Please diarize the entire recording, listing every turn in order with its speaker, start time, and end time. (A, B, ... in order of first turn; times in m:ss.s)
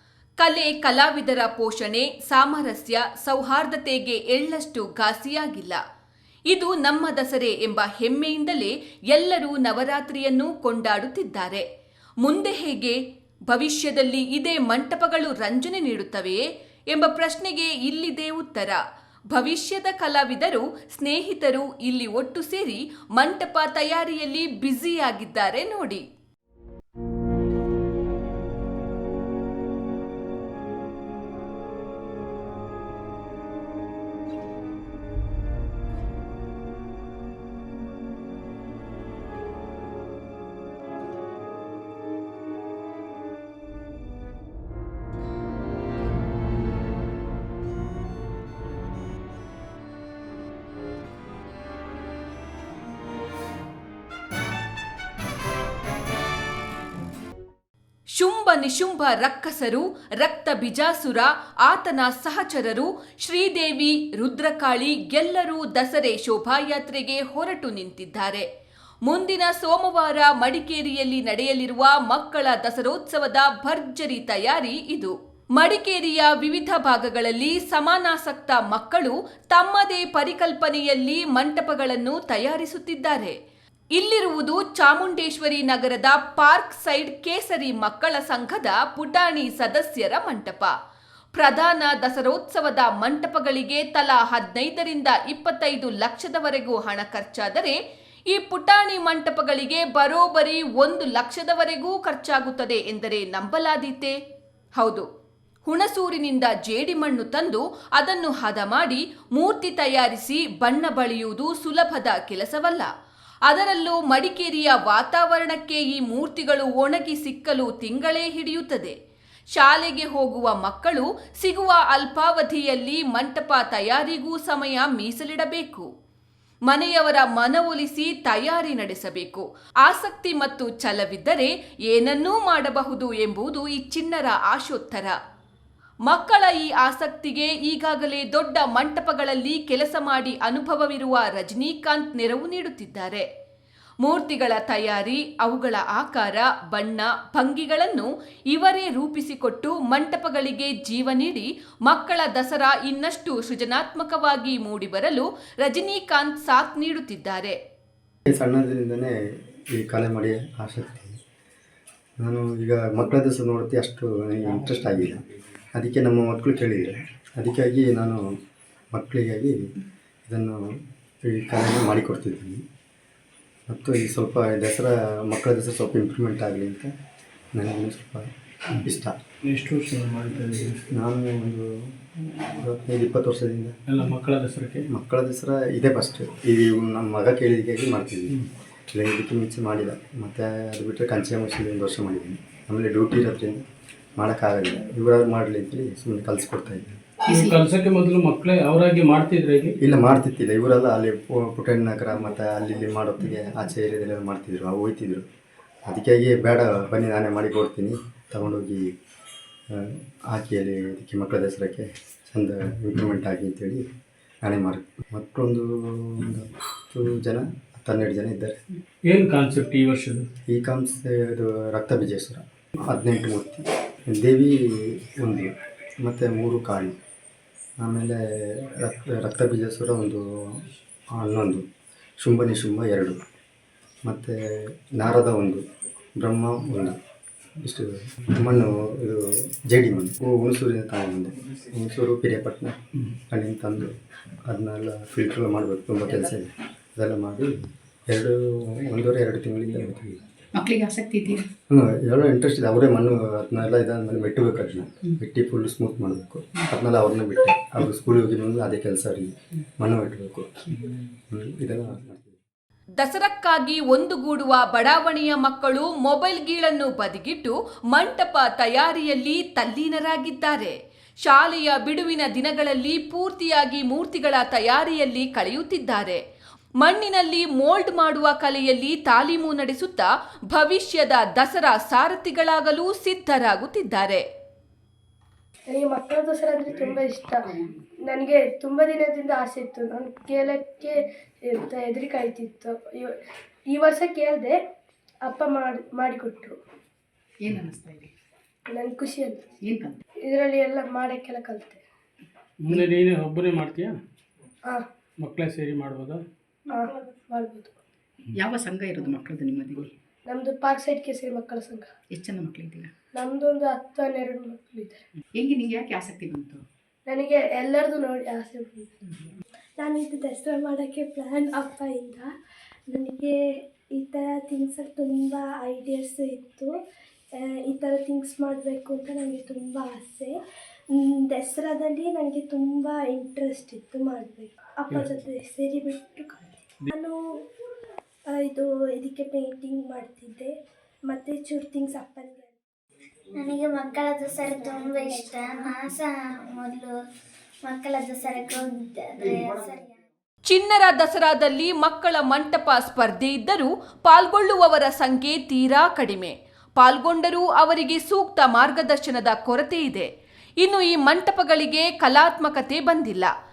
0:00.4-0:05.8 A
0:06.5-0:11.6 A
0:12.2-0:13.0 A
0:13.5-0:18.8 A
0:19.3-0:26.0 A
0:58.1-1:08.4 A
1:09.0-1:23.4 A
1:23.9-1:30.7 A
1:31.4-1:37.8 A
1:38.3-1:44.2 A
1:44.8-1:45.1 A
1:45.6-1:52.9 A
1:53.5-1:59.0 A
1:59.5-2:05.9 A
2:06.7-2:15.2 A
2:16.1-2:23.2 A
2:24.0-2:37.6 A
2:38.3-2:39.1 B
2:39.8-2:41.1 B
2:42.2-2:45.2 B
2:45.8-2:48.2 B
2:48.9-2:49.7 B
2:50.3-2:50.6 B
2:51.2-2:52.6 B
2:53.7-2:56.9 B
2:57.5-2:59.1 B
2:59.4-3:00.8 C
3:00.9-3:03.7 B
3:03.9-3:04.8 C
3:04.9-3:13.6 B
3:14.2-3:17.0 B
3:17.3-3:17.6 D
3:17.3-3:19.8 C
3:19.8-3:25.3 B
3:25.9-3:28.9 B
3:29.7-3:33.8 B
3:34.4-3:38.6 B
3:39.0-3:40.3 C
3:40.5-3:47.0 B
3:47.8-3:50.6 B
3:51.1-3:51.6 B
3:52.2-3:53.2 B
3:54.0-3:55.6 B
3:56.2-3:57.0 B
3:57.6-4:07.5 B
4:08.1-4:10.2 B
4:10.6-4:11.5 D
4:11.7-4:20.8 B
4:21.3-4:22.4 B
4:23.0-4:36.2 A
4:36.8-4:44.2 A
4:45.7-4:47.4 E
4:48.0-4:53.1 E
4:53.7-4:54.6 E
4:55.2-4:56.6 E
4:57.4-4:58.1 D
4:58.7-4:59.4 E
4:59.6-5:00.0 D
5:00.2-5:01.8 E
5:02.6-5:04.0 C
5:05.2-5:06.2 C
5:06.7-5:07.7 E
5:08.3-5:09.9 D
5:10.3-5:11.9 E
5:12.1-5:12.9 D
5:13.1-5:15.0 E
5:15.3-5:16.6 D
5:17.0-5:18.9 E
5:19.8-5:22.3 F
5:22.9-5:23.4 F
5:24.0-5:26.7 F
5:27.4-5:30.3 F
5:31.2-5:37.2 F
5:38.4-5:40.5 F
5:41.1-5:42.5 F
5:43.4-5:46.9 G
5:47.6-5:50.0 G
5:50.4-6:00.1 A
6:00.6-6:03.3 A